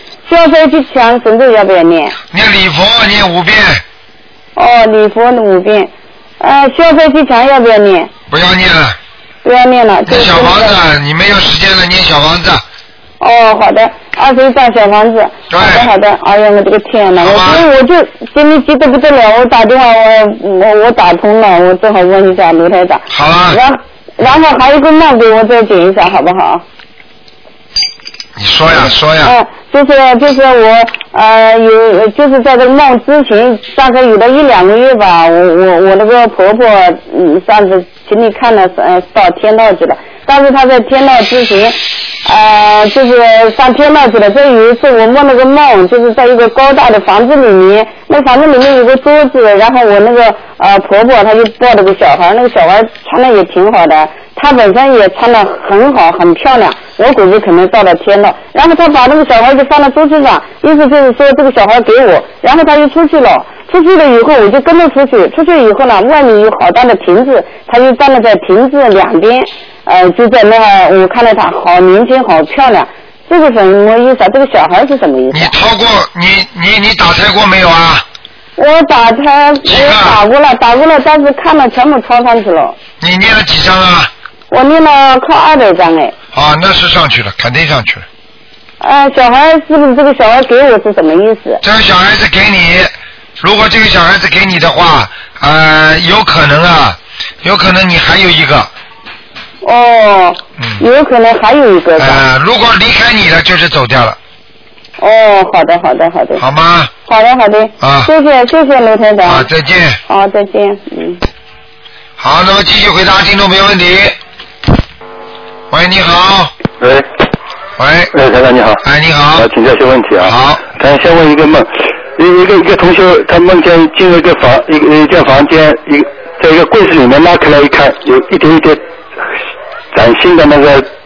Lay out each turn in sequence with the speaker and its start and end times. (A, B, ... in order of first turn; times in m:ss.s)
0:00.3-0:02.2 A
0:02.3-0:03.8 B
0:04.6-0:08.1 A
0:08.3-0:09.0 B
0:09.4-0:10.8 A
0:10.0-0:12.6 B
0:13.2-0:26.6 A
0:15.5-0:15.9 B
0:17.2-0:17.6 B
0:23.1-0:23.6 B
0:28.4-0:29.3 B
0:29.2-1:15.5 A
1:15.3-1:18.0 B
1:18.6-1:22.8 A
1:19.6-1:20.2 B
1:23.0-1:24.1 B
1:24.5-1:26.1 A
1:26.3-1:28.0 B
1:28.8-1:31.6 A
1:31.6-1:38.7 B
1:39.6-1:42.2 A
1:42.0-1:44.2 B
1:45.0-1:46.4 A
1:46.4-1:46.9 B
1:47.1-1:49.5 A
1:47.8-1:48.1 B
1:49.2-1:50.0 B
1:50.1-1:51.2 A
1:52.2-1:54.2 B
1:55.7-1:56.5 B
1:56.8-1:57.1 C
1:57.8-1:58.1 B
1:58.1-1:58.8 C
1:58.8-1:59.5 B
1:59.4-2:08.8 C
2:00.2-2:00.6 B
2:09.9-2:10.9 C